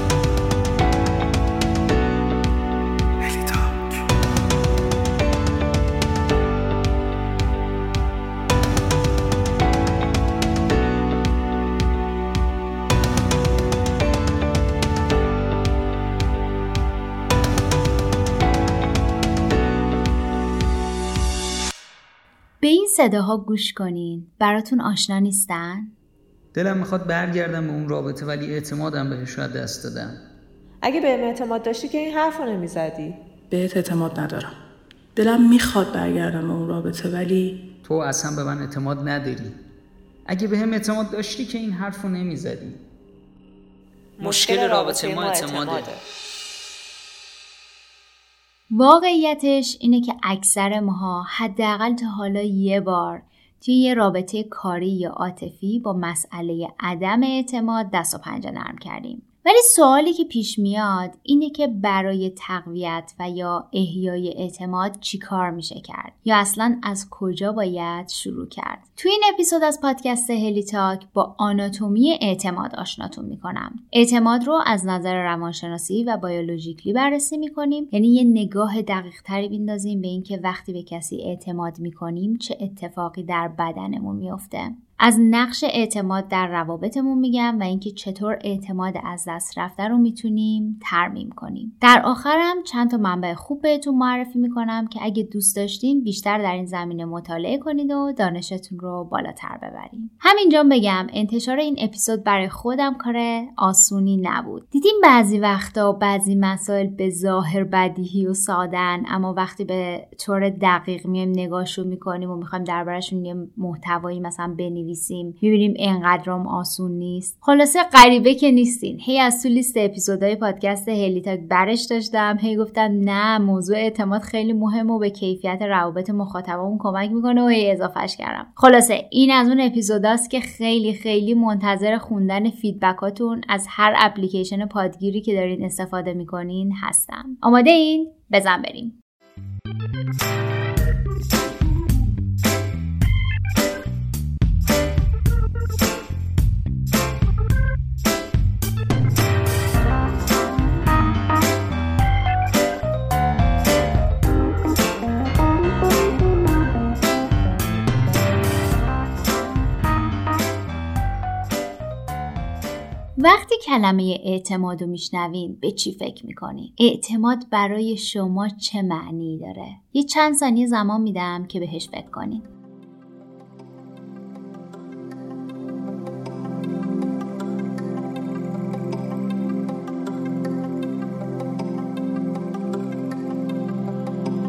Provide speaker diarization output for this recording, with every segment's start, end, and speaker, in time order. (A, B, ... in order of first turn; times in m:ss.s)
0:03.2-0:03.9 A
0:22.6-0:25.9 B
0:26.5-0:30.2 C
0:30.8-0:33.1 D
0:33.5-0:34.5 A
0:35.2-0:37.5 A
0:37.8-0:39.5 C
0:40.3-0:42.8 C
0:44.2-0:46.0 D
0:44.2-0:45.9 C
0:48.7-2:19.0 B
2:43.2-2:52.5 B